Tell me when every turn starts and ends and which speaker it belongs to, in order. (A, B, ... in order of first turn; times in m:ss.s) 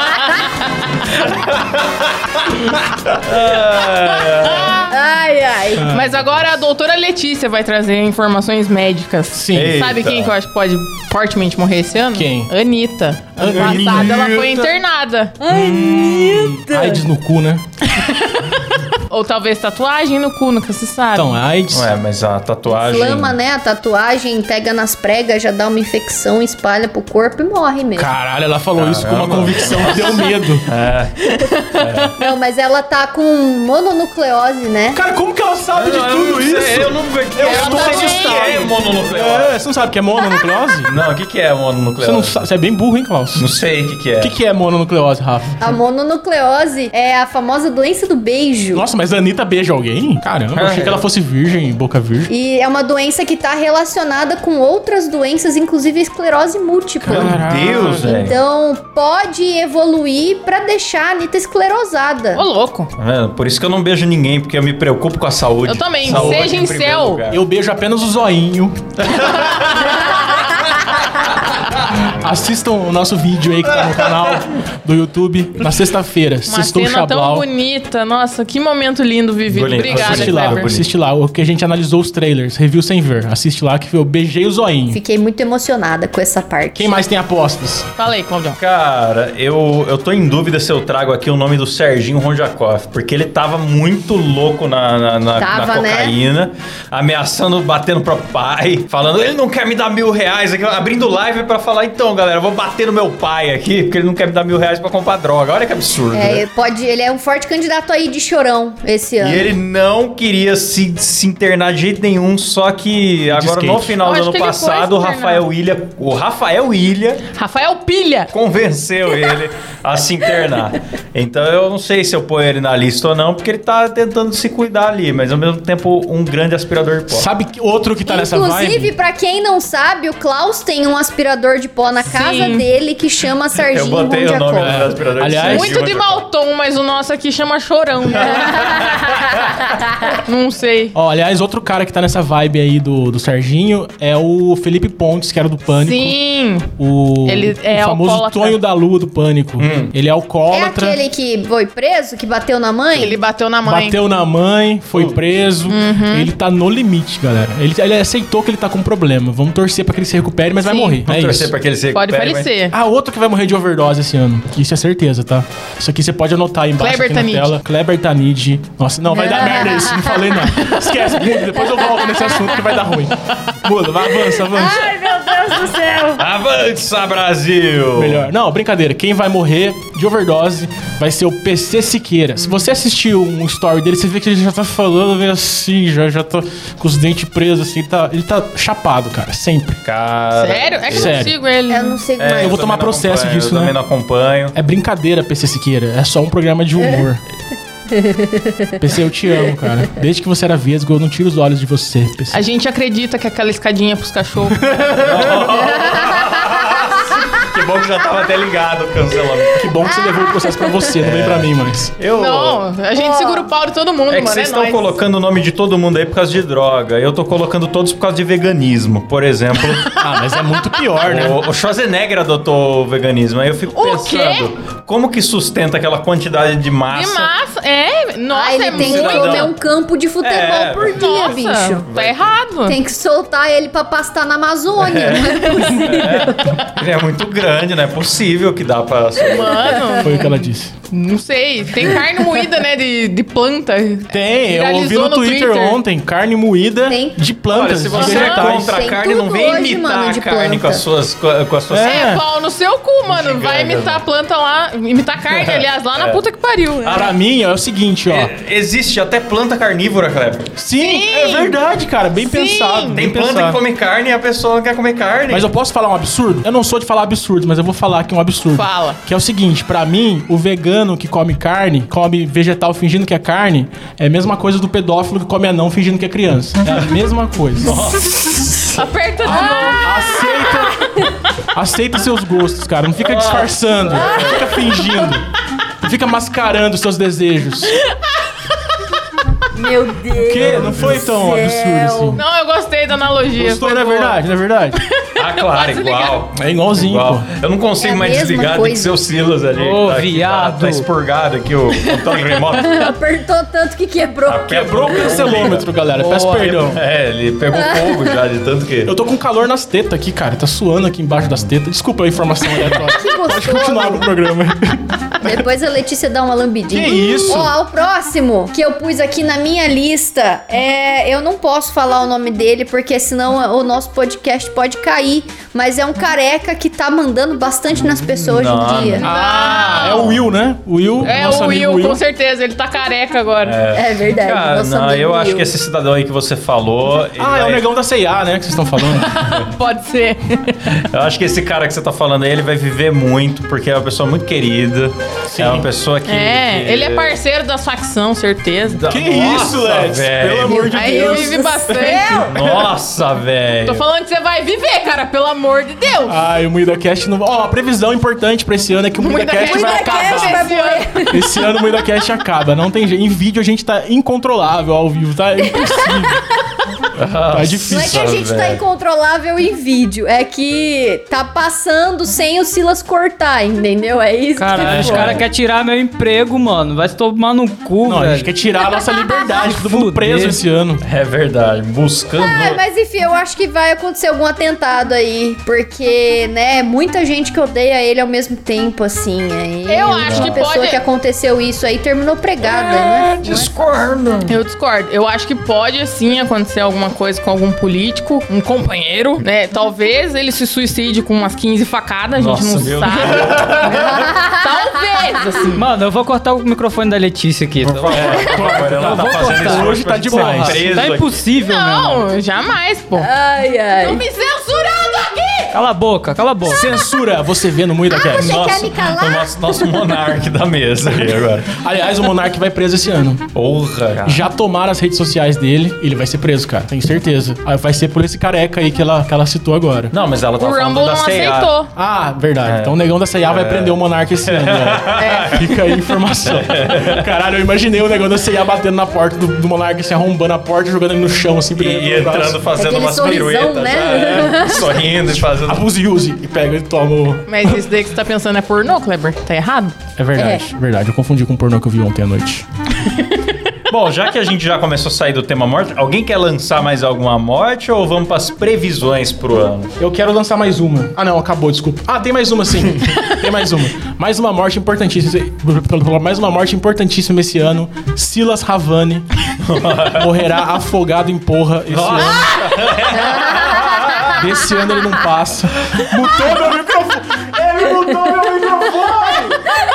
0:01.1-0:04.9 A
0:04.9-0:05.9 B
0:05.8-0:06.1 C
0:05.9-0:15.4 D
0:09.4-0:09.8 C
0:09.5-0:10.3 A
0:12.1-0:12.5 C
0:13.4-0:14.2 C
0:13.4-0:14.7 A
0:15.4-0:17.0 B
0:15.5-0:17.6 C
0:17.9-0:21.4 D
0:21.1-0:21.9 C
0:21.7-0:23.4 A
0:22.7-0:28.1 B
0:28.0-0:30.7 C
0:28.8-0:32.2 A
0:31.3-0:32.0 D
0:32.2-0:35.0 B
0:34.9-0:40.9 C
0:35.8-0:39.6 A
0:37.4-0:38.6 D
0:40.9-0:42.4 A
0:42.0-0:43.5 C
0:43.4-0:44.3 A
0:44.2-0:45.7 C
0:45.6-0:48.8 B
0:48.7-0:52.3 C
0:50.5-0:51.0 A
0:52.3-1:02.4 B
0:57.0-0:58.1 C
0:57.1-0:58.4 A
1:02.3-1:02.9 D
1:03.0-1:07.4 A
1:05.7-1:07.2 D
1:06.0-1:06.5 C
1:07.3-1:08.8 C
1:09.1-1:10.0 A
1:12.0-1:17.4 C
1:16.5-1:20.7 D
1:19.5-1:20.9 A
1:19.8-1:25.0 C
1:24.9-1:27.0 B
1:26.8-1:27.9 C
1:28.0-1:28.6 D
1:28.6-1:46.4 A
1:35.4-1:36.2 B
1:46.1-1:49.5 B
1:49.2-1:57.2 A
1:53.3-1:54.0 C
1:54.0-1:55.5 D
1:57.3-1:58.3 D
1:58.3-2:07.3 A
2:07.1-2:08.9 C
2:08.0-2:14.9 B
2:12.0-2:12.7 D
2:13.6-2:16.2 A
2:14.6-2:15.8 C
2:15.5-2:18.9 D
2:18.1-2:19.6 A
2:20.2-2:21.0 D
2:21.0-2:26.2 C
2:25.8-2:26.7 D
2:26.8-2:31.0 C
2:27.2-2:28.6 D
2:29.6-2:29.9 A
2:30.5-2:33.2 B
2:33.0-2:34.0 D
2:33.6-2:41.5 C
2:35.7-2:36.3 D
2:40.6-2:41.0 D
2:41.0-2:42.5 A
2:41.9-2:42.8 D
2:42.7-2:54.9 C
2:46.8-2:47.5 D
2:49.1-2:50.4 B
2:54.5-2:56.2 B
2:56.2-2:58.2 A
2:58.0-3:09.8 C
3:09.8-3:11.3 A
3:10.3-3:12.0 D
3:10.9-3:11.3 C
3:11.7-3:12.7 B
3:12.2-3:14.6 A
3:12.4-3:13.8 C
3:14.5-3:17.2 C
3:17.9-3:18.8 B
3:18.8-3:22.4 C
3:22.3-3:24.9 D
3:24.6-3:25.5 C
3:25.0-3:29.6 A
3:25.8-3:27.2 B
3:29.5-3:31.9 C
3:29.8-3:30.9 B
3:31.0-3:32.7 A
3:32.1-3:35.0 D
3:33.0-3:33.5 B
3:34.1-3:40.0 A
3:39.6-3:40.8 D
3:40.0-3:41.4 C
3:41.0-3:47.3 A
3:43.7-3:44.5 D
3:46.9-3:49.5 D
3:48.3-3:51.9 B
3:48.7-3:49.5 A
3:50.2-3:51.3 A
3:51.0-3:52.8 D
3:51.9-3:52.2 A
3:52.7-3:56.6 B
3:54.8-3:59.8 A
3:59.2-4:05.8 D
4:00.0-4:00.7 C
4:04.1-4:08.8 C
4:06.9-4:07.2 B
4:07.5-4:12.1 A
4:08.0-4:08.4 D
4:08.0-4:10.8 B
4:11.7-4:12.2 C
4:11.8-4:17.1 D
4:13.1-4:14.0 A
4:15.3-4:16.2 A
4:16.8-4:17.1 A
4:16.9-4:18.3 C
4:18.1-4:20.5 A
4:20.6-4:23.6 C
4:20.8-4:21.6 D
4:22.2-4:23.0 D
4:22.9-4:25.5 A
4:25.3-4:37.8 C
4:28.5-4:29.0 D
4:37.6-4:38.8 A
4:37.7-4:40.6 D
4:39.2-4:40.9 C
4:39.4-4:39.8 B
4:41.5-4:45.2 C
4:43.0-4:44.6 A
4:45.8-4:47.8 C
4:47.7-4:48.8 D
4:49.5-4:52.2 B
4:50.2-4:52.2 C
4:50.4-4:51.0 A
4:52.1-4:54.2 D
4:53.4-4:54.8 C
4:54.7-4:56.2 D
4:55.2-5:02.9 A
4:56.3-4:57.3 C
4:57.8-4:58.9 B
4:59.5-5:00.8 E
5:01.8-5:02.4 D
5:02.5-5:05.0 B
5:04.3-5:05.7 A
5:04.5-5:06.8 C
5:06.3-5:08.9 A
5:07.5-5:08.1 B
5:08.8-5:15.4 C
5:12.8-5:14.1 B
5:15.2-5:29.0 B
5:16.7-5:17.5 C
5:28.1-5:29.1 A
5:29.0-5:32.0 C
5:29.0-5:30.2 D
5:29.8-5:30.2 A
5:31.0-5:33.6 D
5:33.4-5:37.6 A
5:33.7-5:35.5 B
5:37.2-5:39.2 C
5:38.8-5:40.8 D
5:40.8-5:47.2 A
5:45.3-5:45.7 C
5:46.0-5:48.9 D
5:48.8-5:50.7 A
5:48.9-5:52.0 C
5:50.5-5:52.5 B
5:50.6-5:52.2 D
5:52.3-5:53.8 A
5:53.6-5:56.2 D
5:56.1-6:00.5 C
5:59.0-6:00.9 D
5:59.4-6:01.4 B
6:01.0-6:06.2 C
6:05.6-6:06.2 B
6:07.0-6:08.6 A
6:07.3-6:08.0 C
6:07.7-6:15.2 B
6:14.4-6:18.3 E
6:14.6-6:15.2 C
6:14.6-6:15.2 A
6:17.8-6:20.8 C
6:18.6-6:19.4 B
6:19.4-6:20.4 E
6:20.8-6:22.6 A
6:22.2-6:33.5 B
6:29.7-6:30.8 D
6:30.0-6:30.4 A
6:32.4-6:34.4 A
6:34.3-6:45.7 D
6:42.2-6:44.1 A
6:43.7-6:44.5 B
6:45.5-6:52.0 E
6:47.6-6:51.1 A
6:47.9-6:50.7 C
6:51.4-6:53.1 D
6:53.0-6:54.0 B
6:53.8-6:55.6 D
6:55.5-6:56.8 E
6:56.4-6:58.4 C
6:57.9-6:59.4 B
6:58.2-7:01.6 A
7:01.6-7:03.2 C
7:03.3-7:04.3 A
7:04.0-7:09.9 C
7:09.9-7:11.5 A
7:10.4-7:11.7 D
7:11.8-7:22.4 C
7:12.4-7:15.6 A
7:15.0-7:15.4 D
7:16.2-7:17.1 A
7:21.6-7:25.6 A
7:22.5-7:24.9 B
7:25.1-7:27.6 C
7:27.3-7:29.8 D
7:30.0-7:32.4 C
7:30.2-7:30.5 B
7:32.8-7:33.3 D
7:33.7-7:39.7 A
7:39.8-7:49.1 C
7:49.4-7:50.1 A
7:49.9-7:52.4 C
7:51.7-7:54.2 A
7:53.0-7:54.2 B
7:54.2-7:59.4 C